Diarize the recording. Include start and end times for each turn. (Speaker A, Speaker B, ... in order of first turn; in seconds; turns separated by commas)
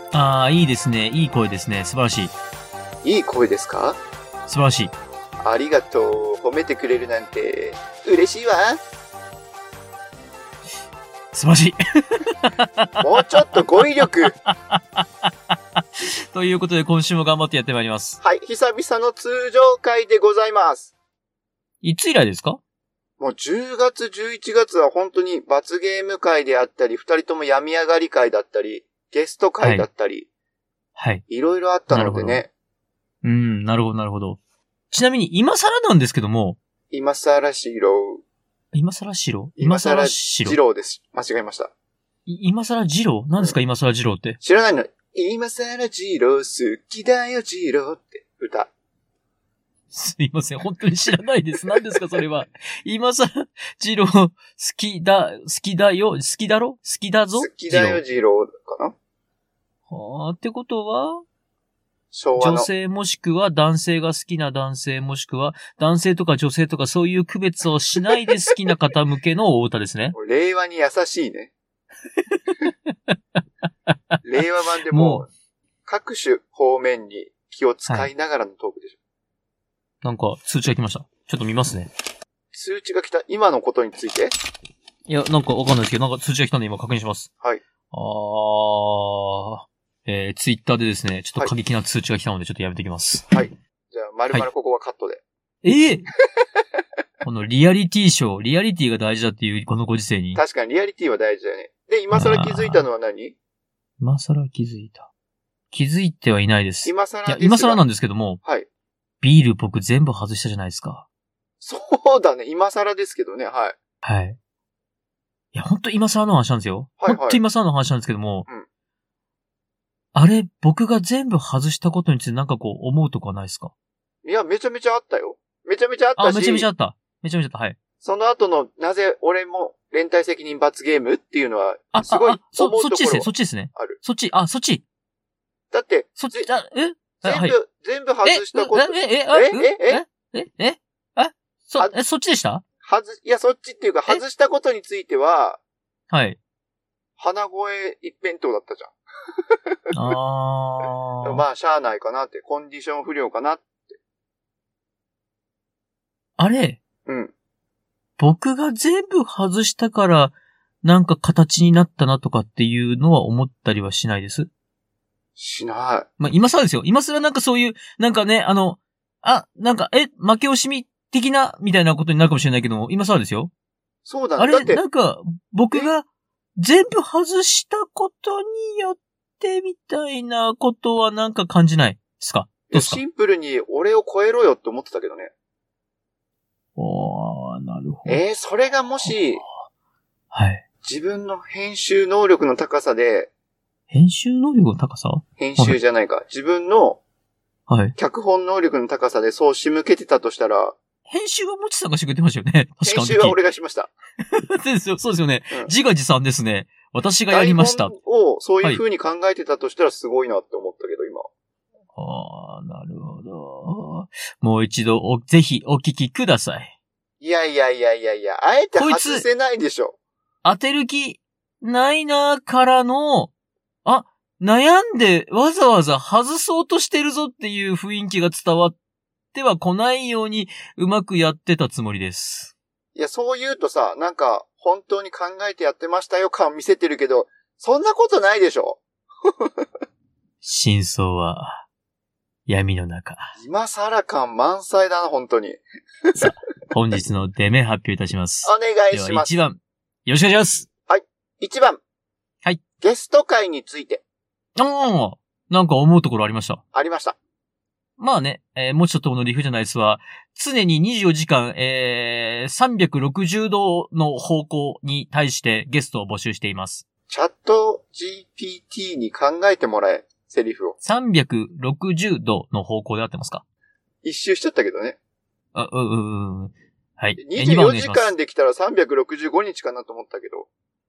Speaker A: 0.1-2.3, Speaker B: 3.0-4.0, Speaker A: 4.5-4.9, Speaker B: 5.4-8.8, Speaker A: 11.3-13.0, Speaker B: 13.0-14.3, Speaker A: 14.2-18.2, Speaker B: 18.2-20.9, Speaker A: 21.8-22.6, Speaker B: 23.2-30.3, Speaker A: 29.6-29.9, Speaker A: 30.9-31.2, Speaker B: 31.3-32.5, Speaker A: 31.9-32.4, Speaker A: 33.2-34.4, Speaker A: 34.9-36.6, Speaker B: 36.9-38.2, Speaker A: 38.7-40.6, Speaker B: 39.6-41.7, Speaker A: 42.3-44.4, Speaker B: 44.4-48.7, Speaker A: 49.9-58.0, Speaker B: 57.4-58.9, Speaker A: 59.9-61.2, Speaker B: 62.1-62.7, Speaker A: 62.4-70.1, Speaker B: 70.1-71.5, Speaker A: 72.5-73.1, Speaker A: 73.9-74.1, Speaker B: 74.2-75.3, Speaker A: 74.9-75.2, Speaker B: 75.8-79.0, Speaker A: 80.0-81.9, Speaker B: 82.5-84.3, Speaker A: 85.1-87.3, Speaker A: 87.9-93.3, Speaker B: 93.3-95.2, Speaker A: 95.6-96.0, Speaker A: 97.2-100.4, Speaker B: 100.3-103.3, Speaker A: 102.1-102.8, Speaker A: 104.0-105.1, Speaker A: 105.7-108.4, Speaker B: 106.8-107.8, Speaker A: 109.2-111.0, Speaker B: 111.6-113.8, Speaker A: 114.0-114.4, Speaker A: 115.5-118.5, Speaker B: 117.0-117.4, Speaker A: 120.1-123.7, Speaker B: 124.2-126.7, Speaker A: 126.2-127.8, Speaker B: 128.0-134.0, Speaker A: 131.9-134.8, Speaker B: 135.7-136.5, Speaker A: 136.2-137.6, Speaker B: 137.2-140.0, Speaker A: 138.2-142.6, Speaker B: 142.8-145.6, Speaker A: 146.1-146.4, Speaker B: 147.2-148.9, Speaker B: 149.5-150.1, Speaker A: 149.9-151.4, Speaker B: 151.2-154.0, Speaker A: 156.4-156.8, Speaker B: 157.1-157.3, Speaker A: 158.2-164.5, Speaker B: 165.4-166.1, Speaker A: 166.2-173.5, Speaker B: 174.0-174.8, Speaker A: 174.4-176.1, Speaker A: 176.6-183.0, Speaker B: 182.7-185.3, Speaker A: 186.8-188.2, Speaker B: 188.1-189.4, Speaker A: 189.0-189.5, Speaker A: 190.3-190.6, Speaker B: 190.8-193.3, Speaker A: 193.9-195.8, Speaker B: 195.4-197.0, Speaker A: 197.7-197.9, Speaker B: 198.0-200.7, Speaker A: 201.1-203.4, Speaker B: 202.8-203.9, Speaker A: 204.3-207.9, Speaker B: 207.3-211.3, Speaker A: 211.9-216.7, Speaker B: 217.2-219.9, Speaker A: 218.8-219.2, Speaker A: 220.4-223.3, Speaker A: 223.8-228.7, Speaker A: 229.3-232.5, Speaker B: 232.9-239.7, Speaker A: 240.4-241.6, Speaker A: 242.5-243.3, Speaker B: 243.3-246.3, Speaker A: 246.2-250.7, Speaker B: 248.4-249.3, Speaker B: 250.9-251.8, Speaker B: 252.8-254.0, Speaker A: 254.6-256.6, Speaker B: 256.7-257.1, Speaker A: 258.0-266.8, Speaker B: 267.1-270.8, Speaker A: 270.8-273.4, Speaker B: 274.0-275.0, Speaker A: 275.5-278.1, Speaker B: 277.2-280.5